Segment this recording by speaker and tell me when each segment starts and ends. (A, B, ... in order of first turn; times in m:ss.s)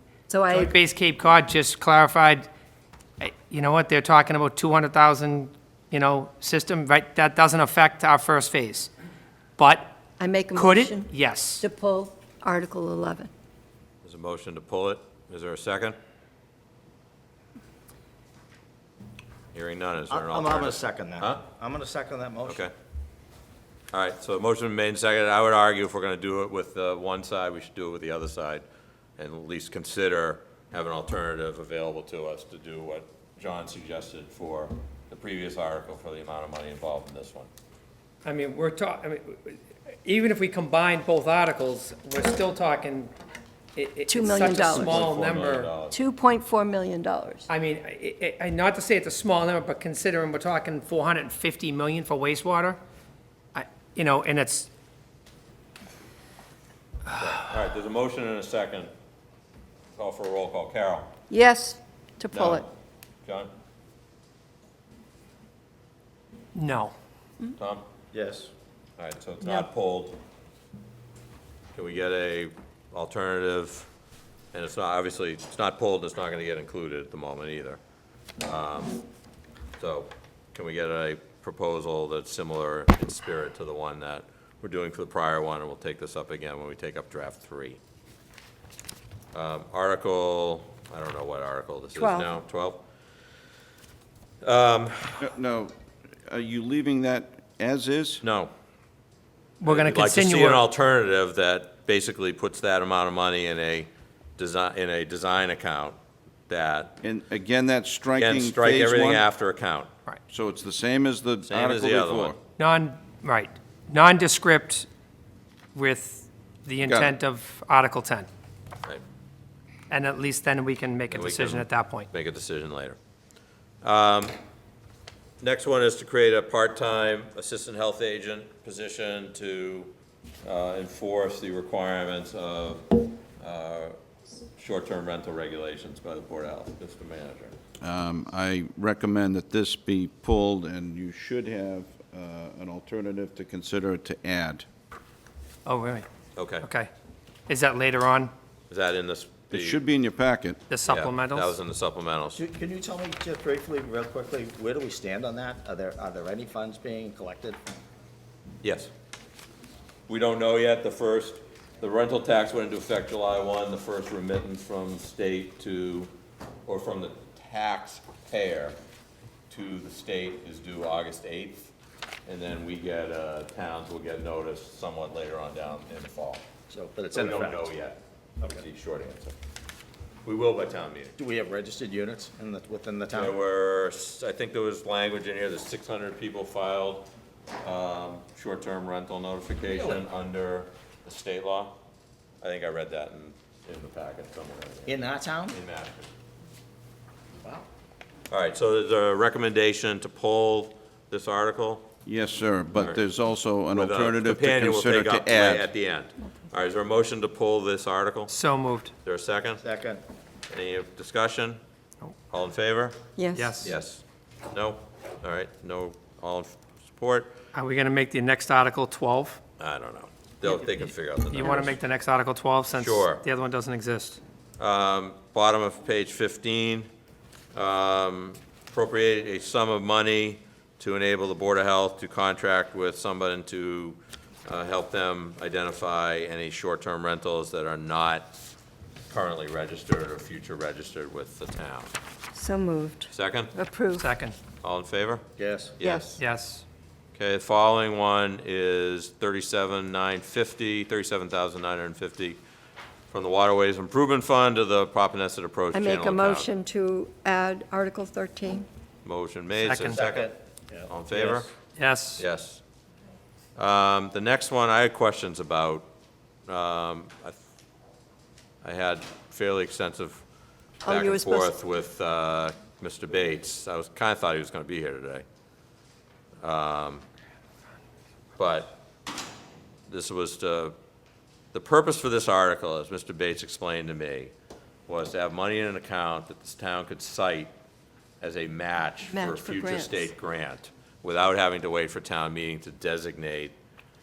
0:00.3-0:00.7 A
0:00.5-0:02.5 B
0:03.2-0:08.9 B
0:09.6-0:09.9 B
0:10.2-0:13.3 A
0:10.5-0:11.6 B
0:14.0-0:16.0 C
0:19.5-0:21.4 C
0:20.1-0:22.6 D
0:22.4-0:22.7 C
0:23.9-0:28.6 C
0:29.2-0:37.5 C
0:38.2-0:43.1 B
0:43.8-0:45.7 B
0:44.1-0:45.0 A
0:44.4-0:46.0 C
0:45.9-0:47.5 A
0:47.5-0:52.8 B
0:53.5-0:54.7 B
0:57.1-0:58.9 C
1:00.0-1:01.1 C
1:01.3-1:02.6 A
1:02.3-1:02.7 C
1:03.2-1:03.5 C
1:06.5-1:06.9 B
1:07.6-1:07.8 C
1:08.1-1:08.5 D
1:09.0-1:10.2 C
1:09.4-1:09.6 A
1:11.7-1:13.9 C
1:14.5-1:17.8 C
1:18.4-1:19.0 C
1:19.8-1:27.8 C
1:29.3-1:32.8 C
1:31.9-1:32.3 A
1:34.4-1:35.3 C
1:35.2-1:35.7 E
1:36.2-1:38.2 E
1:38.2-1:38.5 C
1:39.6-1:40.6 B
1:39.6-1:46.0 C
1:46.5-1:46.9 C
1:47.0-1:49.2 E
1:48.2-1:49.9 C
1:50.3-1:52.4 E
1:51.4-1:52.4 C
1:52.6-1:54.9 B
1:55.7-1:58.3 B
1:56.8-1:57.2 E
1:59.9-2:02.1 B
2:01.1-2:03.0 C
2:03.8-2:04.4 C
2:05.4-2:09.9 C
2:10.4-2:13.9 C
2:14.6-2:17.6 C
2:17.8-2:24.6 E
2:25.6-2:26.1 B
2:26.4-2:26.7 C
2:26.6-2:26.9 B
2:27.5-2:28.3 B
2:28.7-2:29.8 C
2:29.5-2:30.6 E
2:30.7-2:31.5 B
2:30.9-2:32.4 C
2:32.4-2:37.6 D
2:38.6-2:38.9 C
2:40.1-2:46.1 C
2:46.6-2:48.8 C
2:49.5-2:51.7 C
2:52.2-2:56.4 C
2:56.7-2:57.7 D
2:57.1-2:59.3 C
3:00.2-3:01.2 C
3:01.2-3:03.4 D
3:03.1-3:07.1 C
3:07.6-3:11.8 C
3:09.7-3:10.0 D
3:12.4-3:16.1 C
3:14.8-3:15.6 D
3:18.3-3:21.9 C
3:22.0-3:25.7 E
3:22.7-3:23.0 C
3:23.7-3:28.3 C
3:28.3-3:28.9 B
3:29.0-3:29.6 C
3:29.6-3:30.0 D
3:30.5-3:31.6 C
3:32.3-3:33.1 C
3:33.2-3:33.7 A
3:33.3-3:33.7 B
3:33.6-3:37.4 C
3:37.5-3:39.4 B
3:39.6-3:41.8 C
3:40.4-3:44.2 B
3:42.7-3:43.2 C
3:44.6-3:46.9 C
3:47.5-3:58.4 C
3:59.1-4:01.9 C
4:02.3-4:04.1 A
4:03.1-4:03.5 C
4:04.0-4:04.4 B
4:04.6-4:06.2 C
4:05.4-4:05.8 D
4:05.8-4:06.1 A
4:06.2-4:06.6 B
4:07.1-4:12.4 C
4:13.1-4:16.5 C
4:15.7-4:18.6 A
4:19.0-4:20.3 C
4:19.6-4:20.0 B
4:19.9-4:21.5 D
4:20.9-4:21.5 C
4:21.8-4:22.2 B
4:22.2-4:22.6 C
4:23.6-4:25.9 C
4:26.5-4:27.4 C
4:28.6-4:30.2 C
4:30.8-4:31.5 A
4:30.8-4:35.2 C
4:36.4-4:37.0 C
4:38.4-4:38.8 C
4:39.9-4:40.8 C
4:41.5-4:44.3 C
4:44.9-4:47.5 C
4:48.2-4:53.5 C
4:49.1-4:50.1 A